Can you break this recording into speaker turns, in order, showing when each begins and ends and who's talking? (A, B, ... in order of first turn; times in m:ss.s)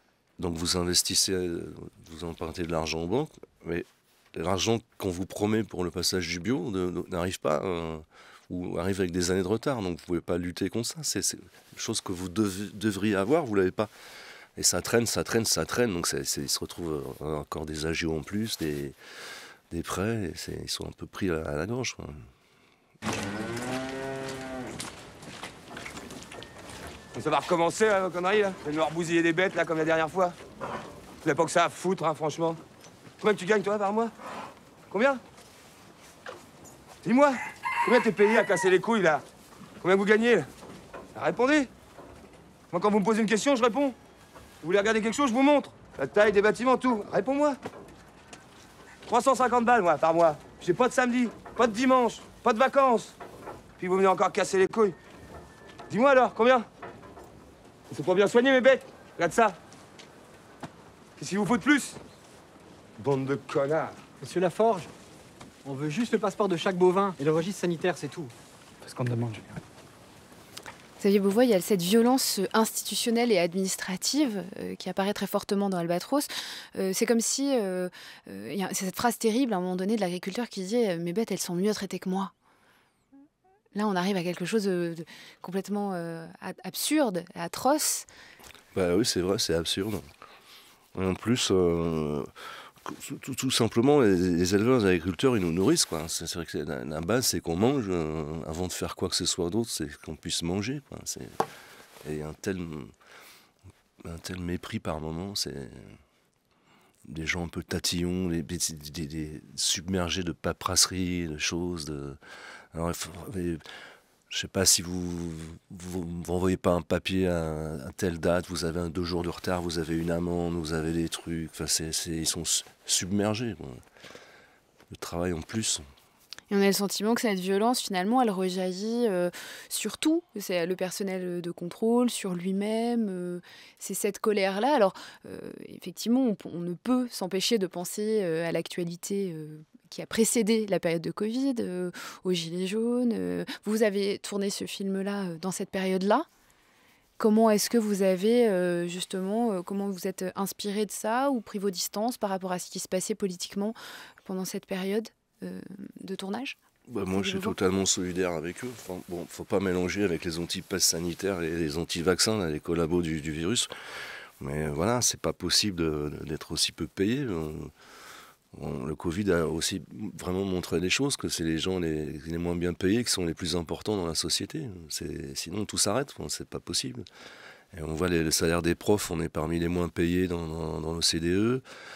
0:00.4-0:13.9 A
0:14.6-0:19.0 A
0:19.7-0:22.3 A
0:27.1-0:30.4 B
0:31.2-0:32.6 B
0:33.2-0:34.1 B
0:34.9-0:35.2 B
0:37.0-0:39.2 B
0:39.8-0:40.5 B
0:41.1-0:41.7 B
0:42.7-0:44.0 B
0:44.6-0:47.6 B
0:49.1-0:53.2 B
0:53.8-0:55.0 B
0:55.9-0:56.7 B
0:57.9-0:59.6 B
1:01.2-1:02.0 B
1:03.0-1:04.0 B
1:04.2-1:04.9 C
1:05.6-1:09.6 C
1:11.0-1:22.3 D
1:23.7-1:28.1 D
1:28.7-1:30.1 A
1:30.9-1:32.3 A
1:32.8-1:41.4 A
1:42.0-1:42.9 A
1:44.0-1:46.0 A
1:47.0-1:52.2 A
1:52.7-1:53.6 A
1:54.3-2:03.8 A
2:04.9-2:05.8 A
2:06.5-2:26.2 D
2:27.2-2:36.6 D
2:36.9-2:47.7 A
2:37.1-2:37.6 D
2:48.5-2:57.0 A
2:57.7-3:01.6 A